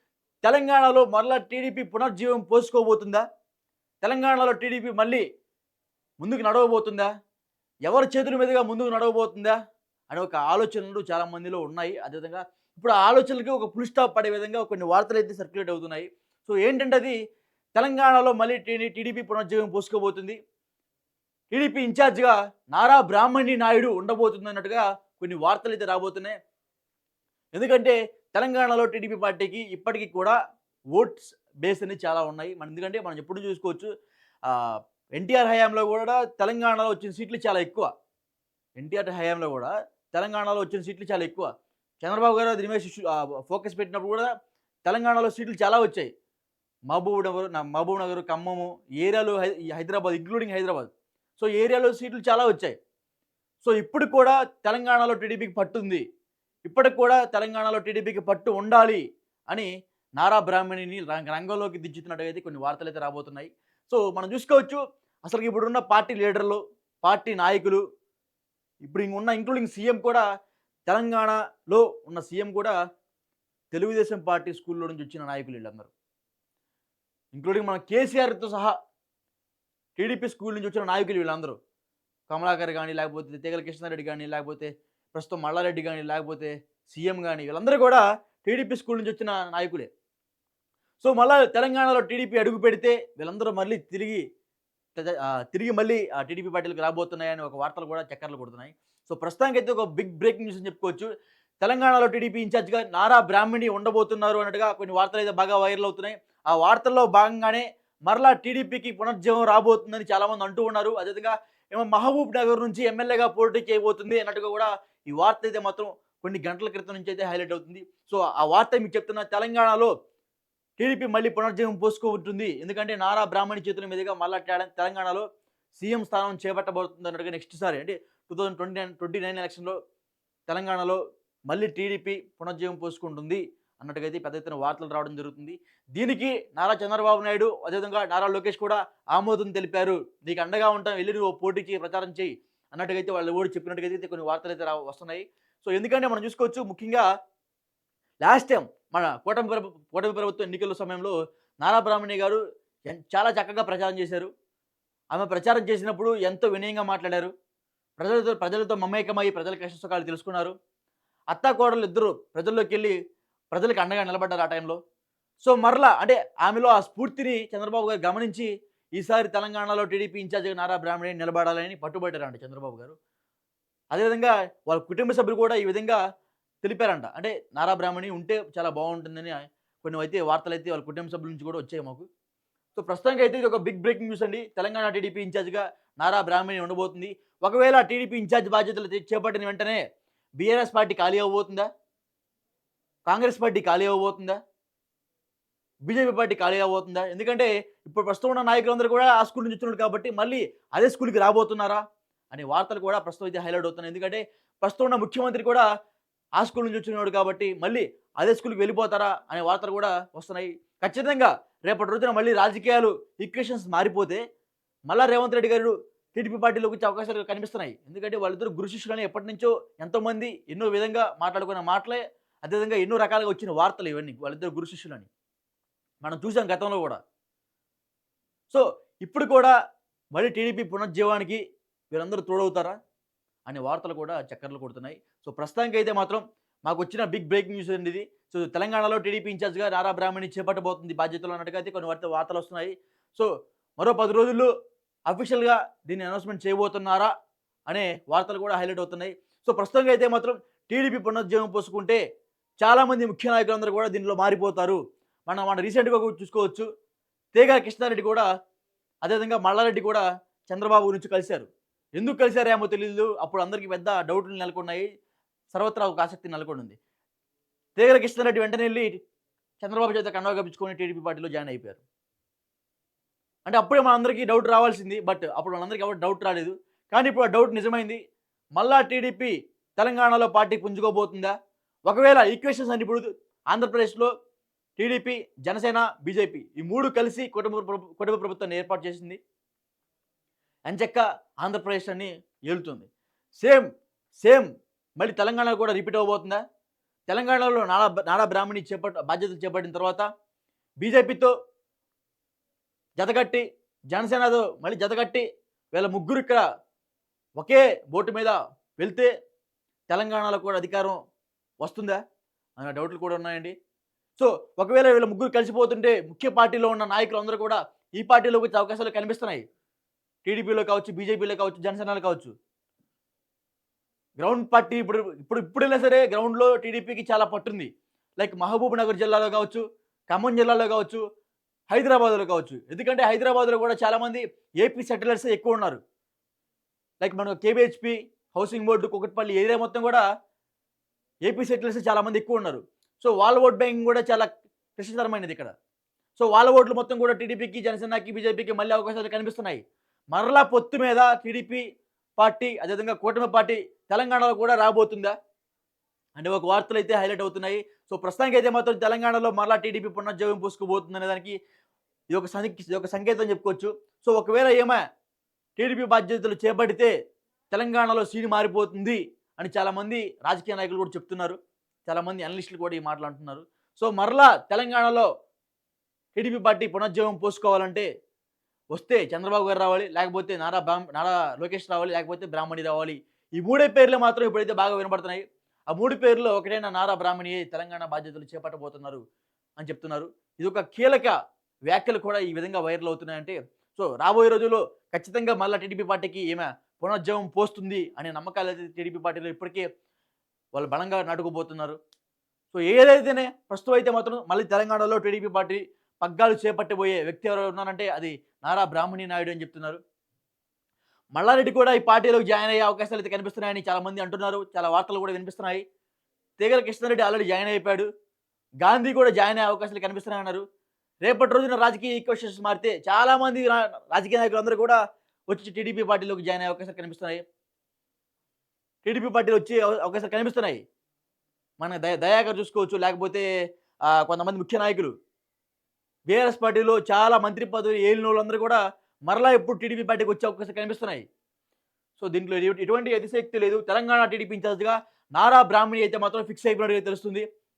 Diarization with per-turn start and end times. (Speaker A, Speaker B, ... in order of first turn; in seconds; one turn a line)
Speaker A: 0.4-3.2
Speaker A: 4.0-5.2
Speaker A: 6.2-7.1
Speaker A: 7.9-9.6
Speaker A: 10.1-17.1
Speaker A: 17.7-20.4
Speaker A: 21.5-26.3
Speaker A: 27.5-30.4
Speaker A: 30.9-33.9
Speaker A: 34.5-37.9
Speaker A: 38.8-41.5
Speaker A: 42.0-44.3
Speaker A: 44.8-46.1
Speaker A: 46.9-52.7
Speaker A: 53.6-56.0
Speaker A: 56.6-67.8
Speaker A: 68.8-70.2
Speaker A: 70.8-72.7
Speaker A: 73.7-75.9
Speaker A: 77.3-78.8
Speaker A: 80.0-81.6
Speaker A: 82.3-89.9
Speaker A: 91.0-94.2
Speaker A: 95.0-101.1
Speaker A: 101.6-119.9
Speaker A: 120.8-129.8
Speaker A: 130.5-147.1
Speaker A: 148.2-154.3
Speaker A: 155.1-157.3
Speaker A: 158.0-160.5
Speaker A: 161.3-162.9
Speaker A: 163.5-164.8
Speaker A: 165.4-172.9
Speaker A: 173.9-176.0
Speaker A: 176.6-182.1
Speaker A: 182.8-189.8
Speaker A: 190.4-191.7
Speaker A: 193.1-194.4
Speaker A: 195.9-205.7
Speaker A: 206.4-214.2
Speaker A: 214.9-225.1
Speaker A: 226.0-227.0
Speaker A: 228.5-229.5
Speaker A: 230.1-231.4
Speaker A: 231.9-232.8
Speaker A: 233.4-244.5
Speaker A: 245.1-247.1
Speaker A: 247.7-252.0
Speaker A: 252.6-256.6
Speaker A: 257.3-258.2
Speaker A: 259.0-264.8
Speaker A: 265.5-266.8
Speaker A: 267.8-269.0
Speaker A: 269.6-271.8
Speaker A: 273.4-278.0
Speaker A: 278.6-281.3
Speaker A: 281.9-284.1
Speaker A: 284.8-289.2
Speaker A: 290.7-292.9
Speaker A: 293.4-293.6
Speaker A: 294.2-294.4
Speaker A: 295.0-296.4
Speaker A: 297.1-300.1
Speaker A: 300.8-301.3
Speaker A: 302.9-306.4
Speaker A: 307.4-309.1
Speaker A: 309.9-311.0
Speaker A: 311.6-312.0
Speaker A: 312.6-313.5
Speaker A: 314.2-319.4
Speaker A: 320.2-322.3
Speaker A: 324.2-331.0
Speaker A: 331.7-335.8
Speaker A: 337.0-340.0
Speaker A: 341.2-345.5
Speaker A: 346.1-349.6
Speaker A: 350.1-351.6
Speaker A: 352.2-355.1
Speaker A: 356.1-361.4
Speaker A: 362.1-364.8
Speaker A: 365.6-366.9
Speaker A: 367.5-375.1
Speaker A: 376.1-377.9
Speaker A: 378.7-389.0
Speaker A: 389.6-391.1
Speaker A: 391.7-399.7
Speaker A: 400.5-401.8
Speaker A: 402.5-409.8
Speaker A: 411.1-415.6
Speaker A: 416.4-417.9
Speaker A: 418.6-420.4
Speaker A: 421.0-424.8
Speaker A: 425.3-427.2
Speaker A: 428.8-430.6
Speaker A: 431.6-433.2
Speaker A: 433.9-434.9
Speaker A: 436.1-441.0
Speaker A: 442.0-447.2